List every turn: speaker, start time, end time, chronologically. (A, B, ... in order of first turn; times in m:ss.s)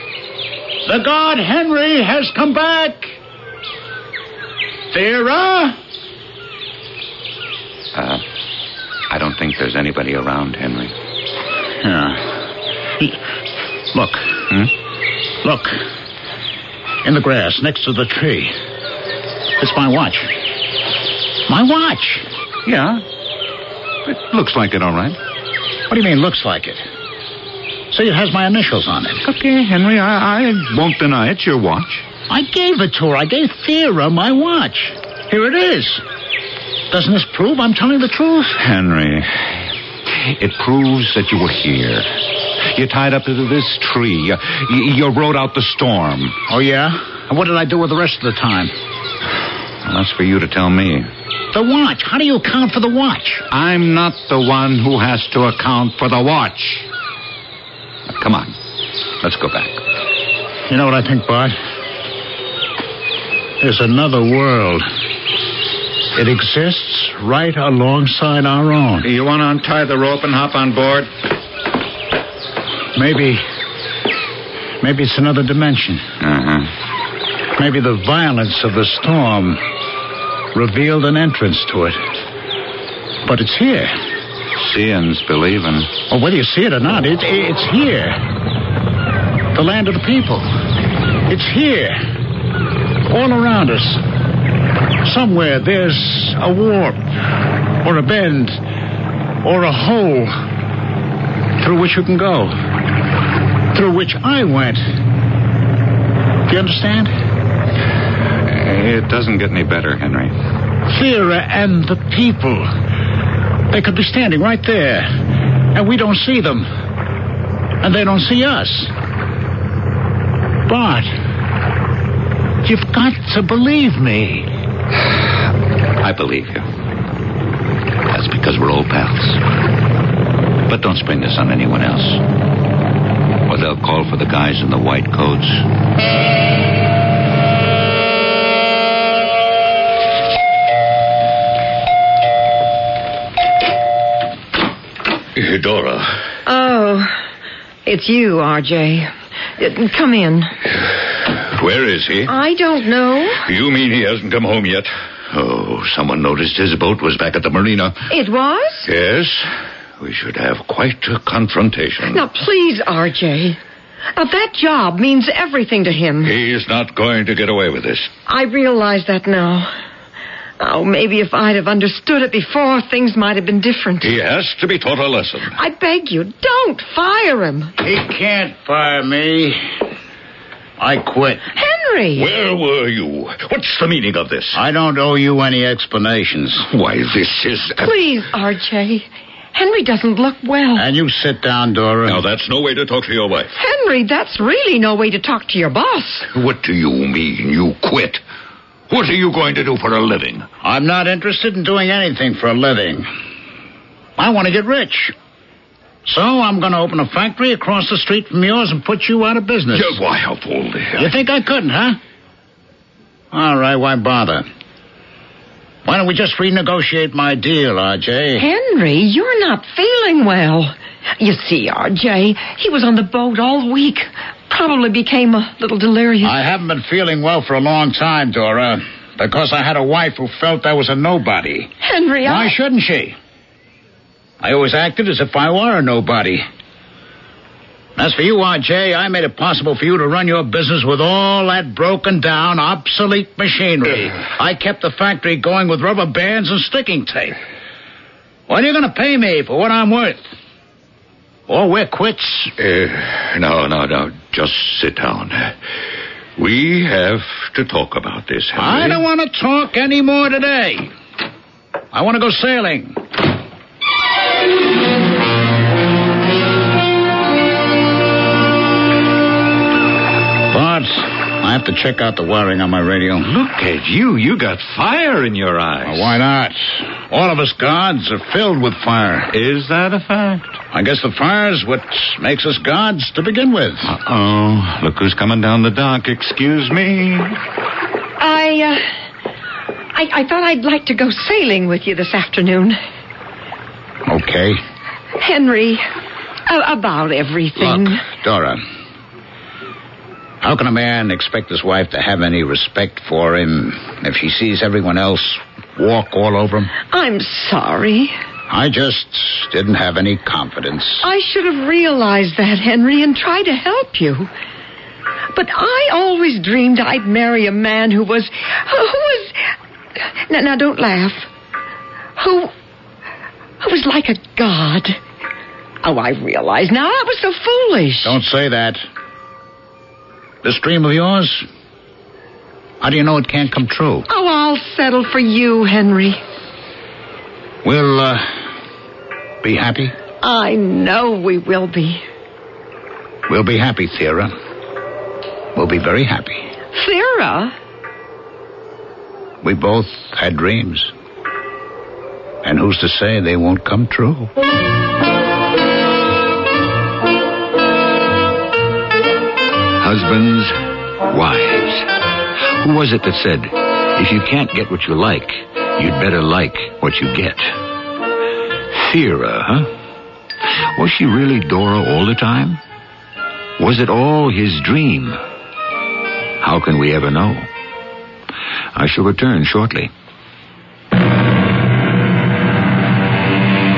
0:00.8-0:03.2 A
0:04.9-0:05.8 A
0:07.9-0:08.2 B
0:09.1-0:10.9 B
0:11.8-0:12.4 A
0:13.9-0:14.4 A
0:15.4-0:15.8 A
0:17.0-0:18.5 A
0:19.6-0:20.3 A
0:21.5-0:22.2 A
0:22.6-0:23.0 B
0:24.0-0:25.2 B
0:25.9-0:26.8 A
0:27.9-0:29.2 A
0:29.2-0:32.0 B
0:32.3-0:36.0 A
0:36.9-0:38.6 A
0:38.5-0:39.6 B
0:40.4-0:42.1 B
0:42.6-0:46.4 B
0:46.5-0:48.7 A
0:49.8-0:51.1 B
0:51.5-0:53.4 A
0:53.5-0:56.9 B
0:58.1-0:58.5 B
0:59.2-0:59.8 B
1:00.7-1:01.6 A
1:03.6-1:04.9 A
1:06.1-1:09.1 A
1:09.0-1:11.1 B
1:12.9-1:13.4 A
1:14.8-1:16.1 A
1:16.2-1:16.7 B
1:17.6-1:19.6 A
1:20.5-1:22.0 A
1:23.2-1:24.0 A
1:24.6-1:25.9 B
1:26.1-1:28.2 A
1:29.5-1:30.5 A
1:31.3-1:32.0 A
1:33.1-1:34.0 A
1:35.0-1:37.0 A
1:37.8-1:38.6 A
1:39.4-1:40.4 A
1:41.6-1:42.5 A
1:43.7-1:44.8 A
1:46.5-1:47.1 A
1:48.4-1:50.3 B
1:50.9-1:52.7 A
1:53.7-1:55.1 A
1:55.7-1:56.7 A
1:57.8-1:58.9 A
2:00.7-2:01.1 A
2:02.6-2:04.5 A
2:06.0-2:06.6 B
2:08.1-2:09.4 B
2:10.7-2:12.2 B
2:13.5-2:15.6 B
2:25.3-2:26.2 C
2:26.4-2:27.1 D
2:27.8-2:30.5 D
2:31.5-2:32.3 C
2:32.3-2:33.4 D
2:33.4-2:38.1 C
2:38.1-2:38.9 D
2:38.8-2:42.2 C
2:42.1-2:43.6 D
2:44.2-2:46.3 D
2:46.2-2:48.1 C
2:48.3-2:49.7 D
2:50.6-2:54.1 D
2:54.0-2:55.5 C
2:55.5-2:57.7 D
2:57.8-2:59.6 A
3:00.8-3:01.5 A
3:01.6-3:02.3 D
3:02.1-3:04.6 C
3:04.5-3:06.7 A
3:06.6-3:08.0 C
3:07.8-3:10.8 D
3:10.7-3:12.2 A
3:12.0-3:13.5 C
3:13.6-3:16.3 D
3:16.3-3:18.2 C
3:18.9-3:20.5 C
3:20.6-3:23.1 A
3:24.2-3:25.1 A
3:26.0-3:30.0 A
3:29.7-3:31.1 C
3:31.0-3:32.0 A
3:33.3-3:34.5 A
3:35.8-3:38.5 A
3:38.4-3:46.3 D
3:46.2-3:51.7 A
3:51.8-3:52.5 D
3:52.2-3:53.2 A
3:54.4-3:56.4 A
3:58.0-4:07.4 A
4:08.5-4:10.2 A
4:11.5-4:12.5 A
4:12.6-4:15.6 C
4:16.4-4:18.9 C
4:18.6-4:20.9 A
4:21.9-4:23.0 A
4:30.5-4:33.3 A
4:33.2-4:36.1 B
4:35.8-4:39.3 A
4:39.3-4:40.5 B
4:40.7-4:43.9 A
4:43.9-4:47.4 B
4:48.2-4:48.8 D
4:49.9-4:52.8 D
4:54.0-4:54.6 A
4:55.2-4:55.8 D
4:56.5-4:58.0 D
4:57.6-4:58.6 A
5:00.4-5:06.7 A
5:06.9-5:08.1 D
5:08.5-5:11.1 A
5:11.0-5:14.3 D
5:15.3-5:19.4 D
5:20.0-5:21.3 D
5:22.2-5:22.5 D
5:23.6-5:25.0 D
5:25.8-5:28.1 D
5:28.0-5:28.8 A
5:30.4-5:31.4 A
5:32.8-5:34.1 A
5:34.1-5:36.2 D
5:37.6-5:38.4 A
5:39.4-5:39.9 A
5:40.2-5:42.0 D
5:43.3-5:44.3 A
5:45.5-5:46.5 A
5:46.7-5:47.5 D
5:49.4-5:50.9 A
5:52.4-5:54.3 A
5:59.8-6:01.9 E
6:02.6-6:07.6 E
6:08.7-6:09.7 E
6:10.7-6:12.6 E
6:13.6-6:15.2 E
6:16.4-6:17.5 E
6:18.7-6:19.9 E